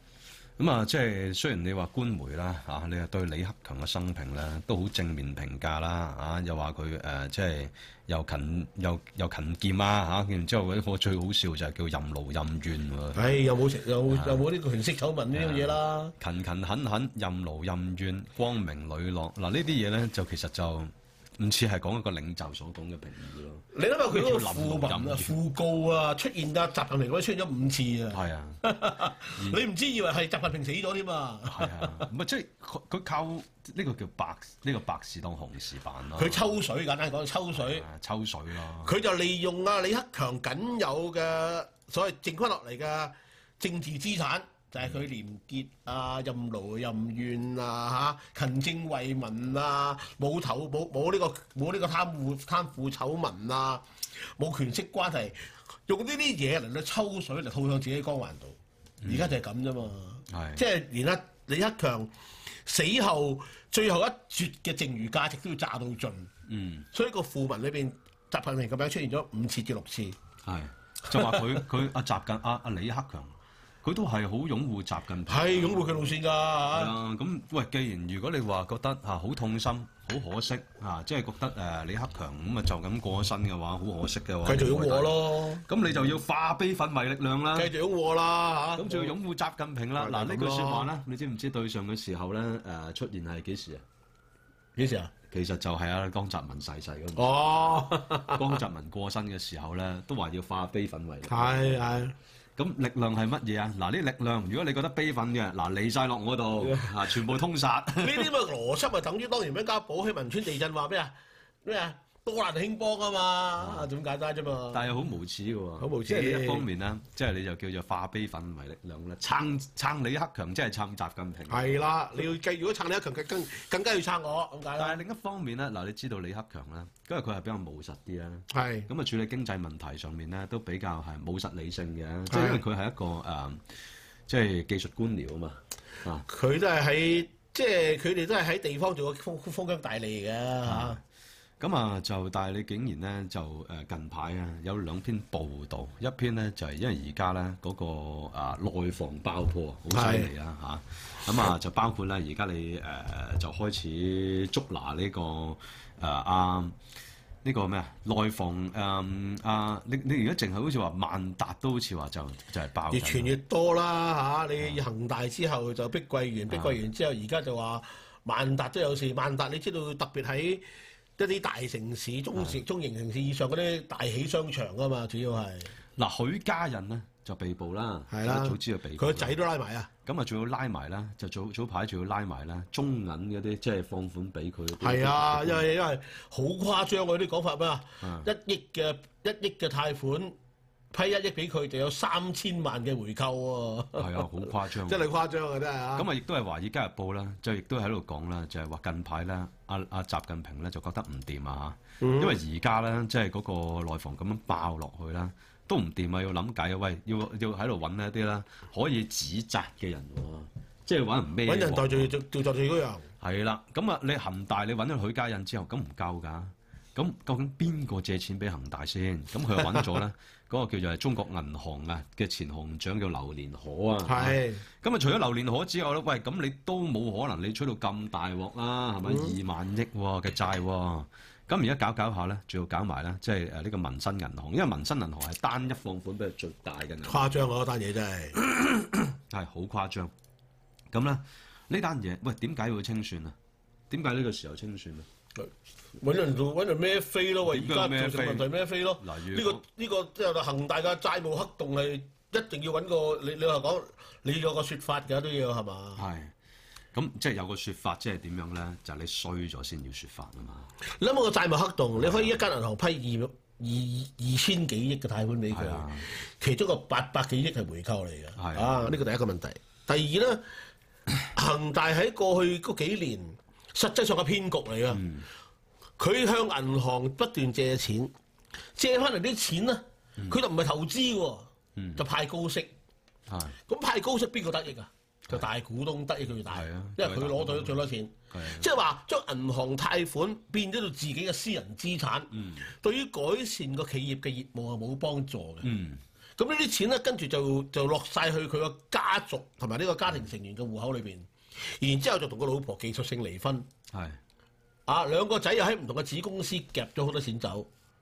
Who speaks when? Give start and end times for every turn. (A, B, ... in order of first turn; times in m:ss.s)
0:00.6-0:13.2 A
0:13.1-0:16.1 B
0:14.1-0:14.4 A
0:15.3-0:25.4 A
0:23.7-0:32.1 B
0:28.1-0:28.6 A
0:29.4-0:29.6 A
0:31.5-0:36.5 A
0:36.2-0:37.8 B
0:37.5-0:38.9 A
0:38.8-1:02.1 B
0:59.0-0:59.3 A
1:00.3-1:00.6 A
1:02.6-1:06.3 B
1:06.4-1:06.9 A
1:06.9-1:10.2 B
1:10.4-1:16.0 A
1:11.1-1:11.6 B
1:15.3-1:16.9 B
1:16.7-1:27.7 A
1:24.4-1:25.7 B
1:27.5-1:29.1 B
1:28.7-1:33.8 A
1:30.0-1:30.9 B
1:34.8-1:35.1 B
1:35.3-1:37.3 A
1:37.2-1:38.6 B
1:38.2-1:41.8 A
1:41.3-1:42.1 B
1:42.6-1:48.3 A
1:46.6-1:47.1 B
1:48.0-1:54.8 B
1:53.6-1:53.9 A
1:54.7-2:01.7 A
1:55.8-1:56.6 B
2:01.5-2:05.0 B
2:04.8-2:13.6 A
2:08.5-2:08.9 B
2:12.3-2:12.6 B
2:14.3-2:16.2 A
2:16.2-2:21.0 B
2:20.6-2:21.0 A
2:21.6-2:36.8 A
2:29.9-2:30.3 B
2:37.4-2:43.3 A
2:42.9-2:50.6 B
2:46.5-2:46.8 A
2:51.2-2:55.7 B
2:56.0-2:59.4 A
2:58.1-2:59.9 B
3:00.0-3:05.6 A
3:04.8-3:10.3 B
3:08.0-3:08.3 A
3:10.9-3:16.1 B
3:14.0-3:15.0 A
3:16.0-3:32.1 A
3:22.0-3:22.4 B
3:31.4-3:33.1 B
3:33.2-3:57.4 A
3:44.0-3:44.6 B
3:49.0-3:49.3 B
3:57.0-3:58.4 B
3:58.4-4:00.1 A
4:00.9-4:03.4 A
4:03.9-4:05.1 A
4:05.4-4:16.0 B
4:07.4-4:09.6 A
4:16.0-4:16.3 A
4:16.9-4:20.7 A
4:20.9-4:30.4 B
4:22.0-4:22.4 A
4:25.5-4:26.1 A
4:28.4-4:28.9 A
4:31.3-4:35.0 B
4:34.9-4:35.2 A
4:36.0-4:38.1 B
4:38.8-4:42.7 B
4:41.8-4:42.0 A
4:43.3-4:43.6 A
4:43.7-4:55.7 B
4:46.5-4:47.7 A
4:48.3-4:48.7 A
4:52.3-4:52.6 A
4:55.6-4:56.0 A
4:56.4-5:03.7 B
5:03.9-5:04.2 A
5:04.9-5:07.7 B